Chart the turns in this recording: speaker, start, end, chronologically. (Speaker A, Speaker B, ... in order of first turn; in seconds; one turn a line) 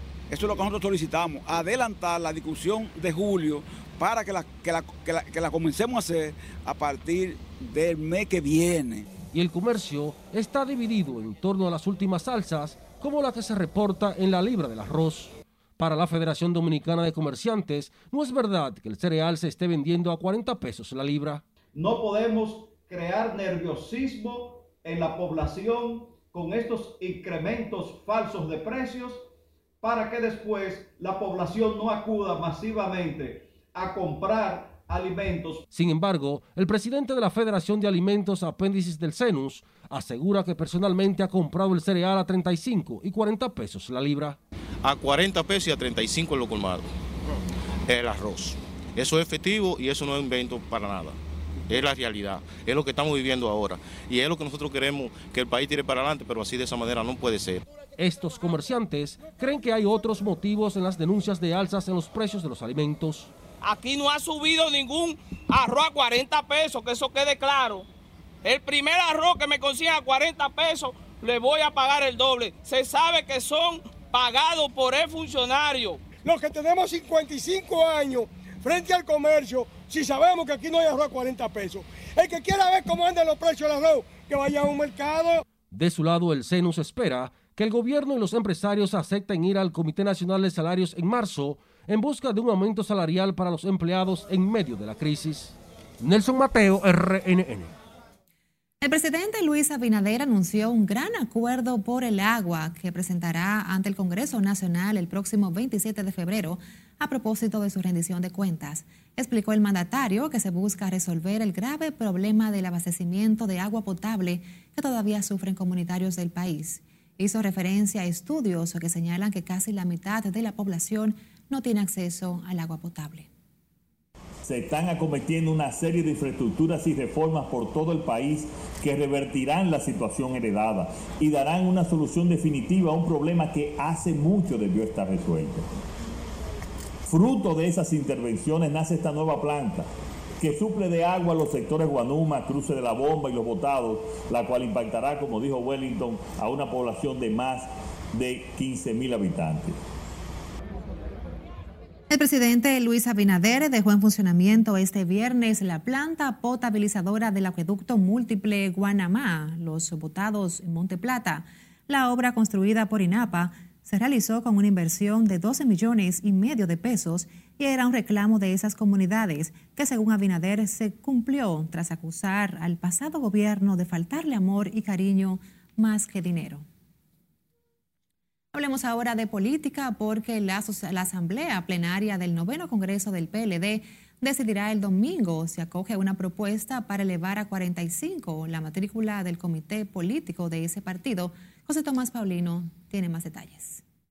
Speaker A: 0.3-9.1
Speaker B: 9.3-21.4
Speaker C: 21.7-29.2
Speaker C: 29.8-35.6
Speaker B: 35.7-44.4
Speaker D: 44.8-46.9
Speaker D: 47.9-51.2
Speaker D: 51.7-57.6
Speaker B: 58.0-63.3
Speaker E: 63.6-67.9
Speaker E: 68.4-76.0
Speaker F: 76.2-85.4
Speaker B: 85.7-97.7
Speaker G: 98.8-123.3
Speaker H: 124.4-135.7
Speaker H: 137.1-149.8
Speaker G: 152.1-176.6
Speaker G: 178.5-193.8